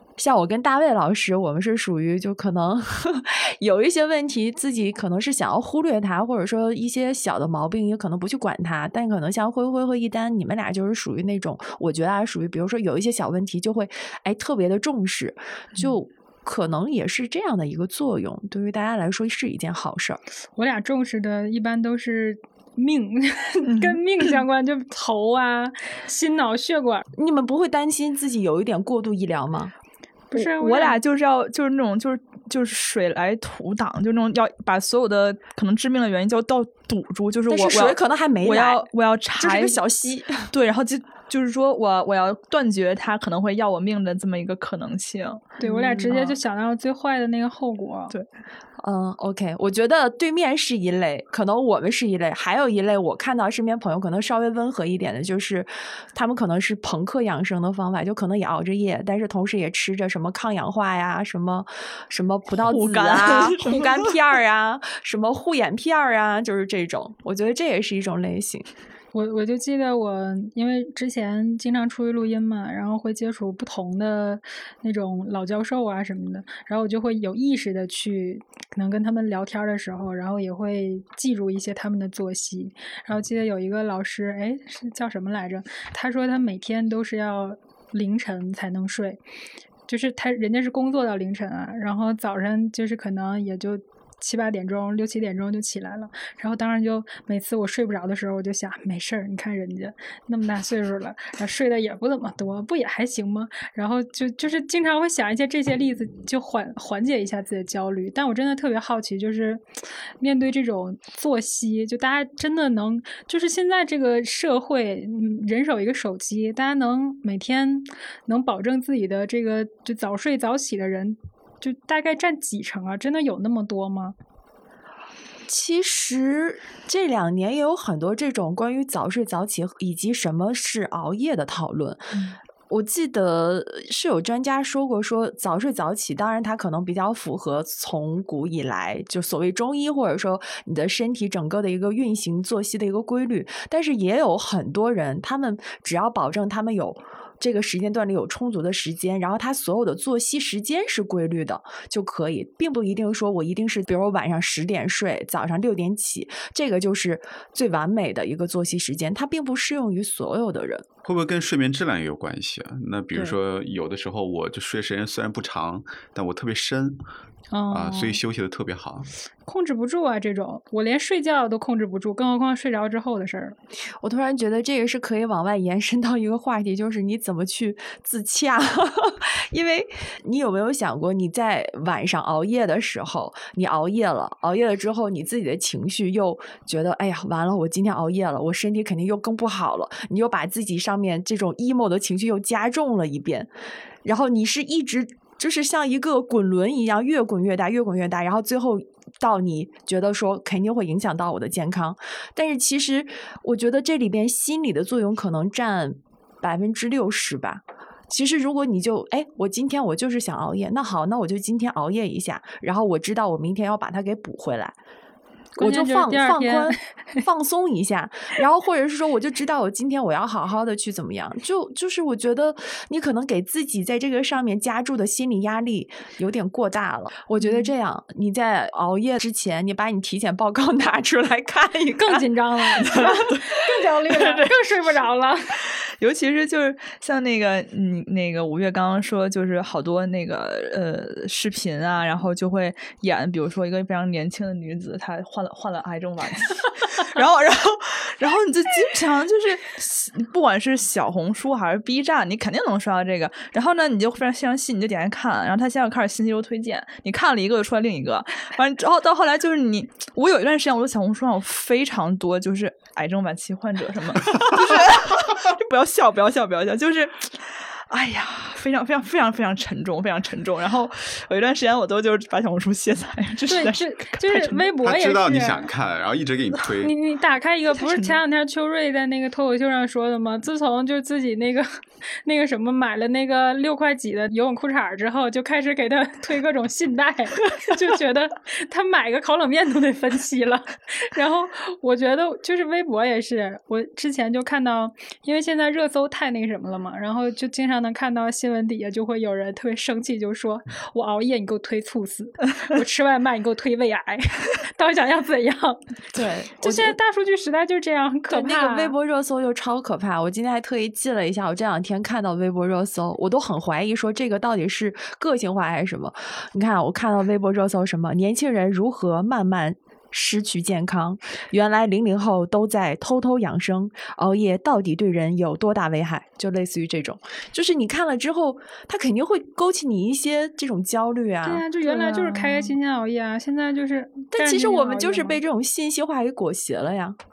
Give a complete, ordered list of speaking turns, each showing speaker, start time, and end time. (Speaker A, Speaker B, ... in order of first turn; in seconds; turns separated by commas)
Speaker A: 0.2-20.2, Speaker B: 20.6-27.0, Speaker C: 23.7-24.0, Speaker A: 27.1-29.7, Speaker B: 30.3-31.0, Speaker C: 30.3-39.8, Speaker A: 37.5-38.9, Speaker A: 39.4-40.5, Speaker C: 40.5-45.6, Speaker B: 45.6-48.1, Speaker A: 45.6-46.1, Speaker A: 48.8-68.7, Speaker C: 62.6-64.1, Speaker B: 69.1-89.2, Speaker B: 89.9-109.6, Speaker B: 110.2-124.2, Speaker A: 125.5-132.2, Speaker A: 132.7-160.8, Speaker D: 161.0-167.0, Speaker B: 167.5-168.2, Speaker D: 167.7-169.1, Speaker B: 169.4-173.6, Speaker A: 174.0-193.5, Speaker A: 194.0-214.7, Speaker A: 215.6-232.2, Speaker B: 215.6-217.2, Speaker B: 231.9-235.6, Speaker C: 232.9-233.3, Speaker C: 234.1-234.5, Speaker C: 236.0-274.7, Speaker B: 273.5-275.7, Speaker D: 274.8-276.9, Speaker B: 276.8-305.8, Speaker C: 277.8-278.2, Speaker A: 306.1-306.9, Speaker B: 306.6-308.9, Speaker A: 308.3-332.7, Speaker B: 331.4-335.4, Speaker A: 334.3-337.2